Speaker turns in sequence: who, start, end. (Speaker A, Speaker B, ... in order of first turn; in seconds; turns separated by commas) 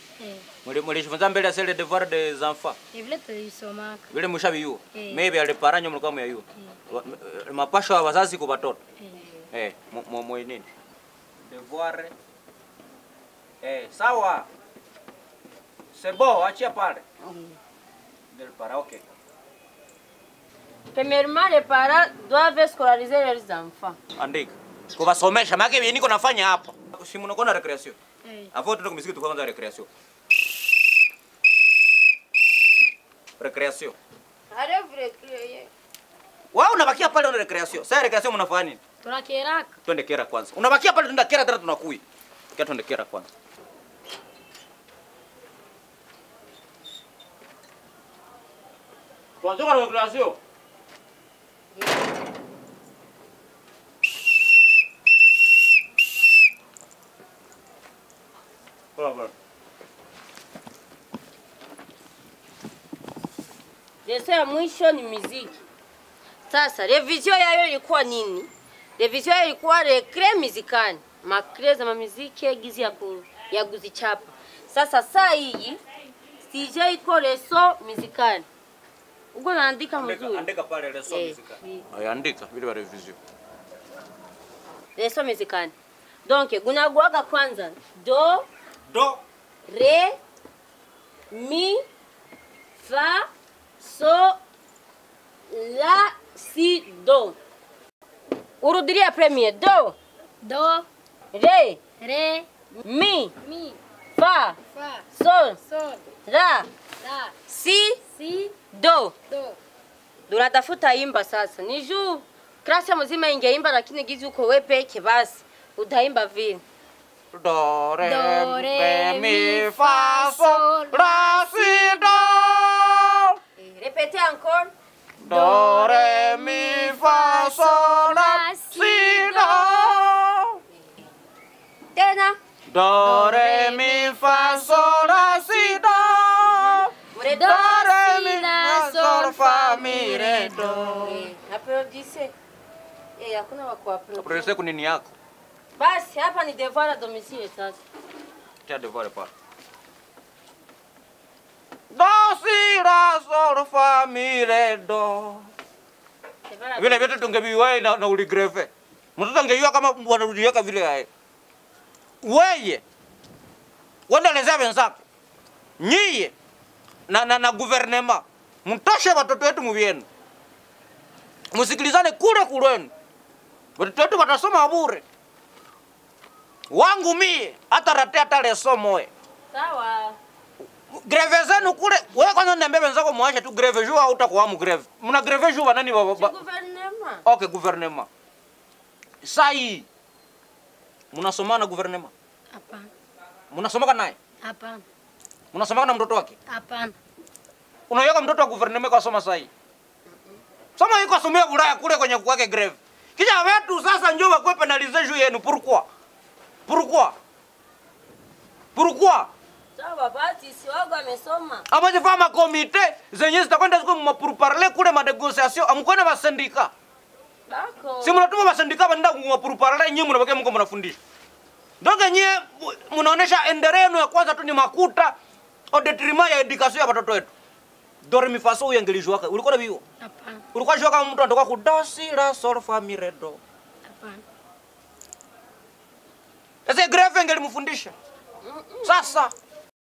Speaker A: 0.2-0.5, Speaker B: 0.6-2.8, Speaker A: 2.9-4.0, Speaker B: 4.1-8.8, Speaker A: 4.9-5.2, Speaker B: 9.5-10.7, Speaker B: 11.4-12.1, Speaker B: 13.6-14.5, Speaker B: 15.9-17.0, Speaker C: 17.2-17.6, Speaker B: 18.3-19.0, Speaker C: 20.9-24.0, Speaker B: 24.1-28.0, Speaker A: 28.2-28.5, Speaker B: 28.5-29.9, Speaker B: 33.4-34.0, Speaker C: 34.5-35.7, Speaker B: 36.5-38.8, Speaker A: 39.0-39.7, Speaker B: 39.9-42.0, Speaker B: 42.5-43.3, Speaker B: 49.4-50.4, Speaker B: 59.0-59.3, Speaker C: 64.0-65.6, Speaker C: 66.5-75.8, Speaker C: 76.4-78.5, Speaker C: 79.3-80.5, Speaker B: 80.0-83.2, Speaker C: 81.1-81.8, Speaker C: 85.0-85.7, Speaker C: 86.2-88.5, Speaker B: 88.9-89.2, Speaker C: 89.7-90.2, Speaker C: 91.3-91.8, Speaker C: 92.8-93.3, Speaker C: 93.8-94.4, Speaker C: 95.5-97.4, Speaker C: 98.6-100.0, Speaker A: 100.4-100.9, Speaker C: 101.3-101.8, Speaker A: 102.0-102.5, Speaker C: 102.8-103.3, Speaker A: 103.4-103.8, Speaker C: 104.1-104.6, Speaker A: 104.7-105.0, Speaker C: 105.1-105.6, Speaker A: 105.6-106.0, Speaker C: 106.2-106.7, Speaker A: 107.0-107.3, Speaker C: 107.5-108.0, Speaker A: 108.1-108.5, Speaker C: 108.7-109.1, Speaker A: 109.3-109.6, Speaker C: 110.3-116.6, Speaker B: 117.3-123.4, Speaker A: 118.0-122.2, Speaker C: 123.6-124.7, Speaker B: 125.2-130.6, Speaker A: 125.3-129.9, Speaker C: 131.9-132.4, Speaker B: 132.7-141.3, Speaker A: 133.0-134.5, Speaker C: 133.1-135.5, Speaker C: 136.5-137.9, Speaker A: 137.2-140.9, Speaker C: 140.9-142.3, Speaker C: 143.2-144.5, Speaker B: 144.2-145.1, Speaker C: 145.8-147.8, Speaker B: 148.7-149.3, Speaker B: 151.9-155.5, Speaker C: 156.5-157.2, Speaker B: 156.8-161.1, Speaker B: 162.2-162.8, Speaker B: 164.1-165.0, Speaker B: 165.8-166.3, Speaker B: 167.1-170.1, Speaker B: 171.5-172.9, Speaker B: 173.8-175.0, Speaker B: 176.7-179.1, Speaker C: 179.5-180.2, Speaker B: 180.9-186.3, Speaker C: 186.1-187.2, Speaker B: 187.2-188.1, Speaker B: 189.2-189.8, Speaker B: 191.1-192.1, Speaker A: 192.5-192.9, Speaker B: 193.5-194.2, Speaker A: 194.4-194.8, Speaker B: 195.5-196.3, Speaker A: 196.5-196.9, Speaker B: 197.9-199.5, Speaker B: 200.8-205.9, Speaker B: 206.7-207.1, Speaker B: 208.8-209.3, Speaker C: 209.8-211.6, Speaker B: 211.7-216.7, Speaker C: 217.5-218.2, Speaker B: 218.0-221.0, Speaker B: 221.8-225.1, Speaker B: 225.7-227.3, Speaker B: 228.0-229.8, Speaker A: 230.0-230.4, Speaker B: 230.5-233.4, Speaker A: 233.9-234.2, Speaker B: 236.7-237.9, Speaker C: 238.4-239.1, Speaker B: 238.8-239.3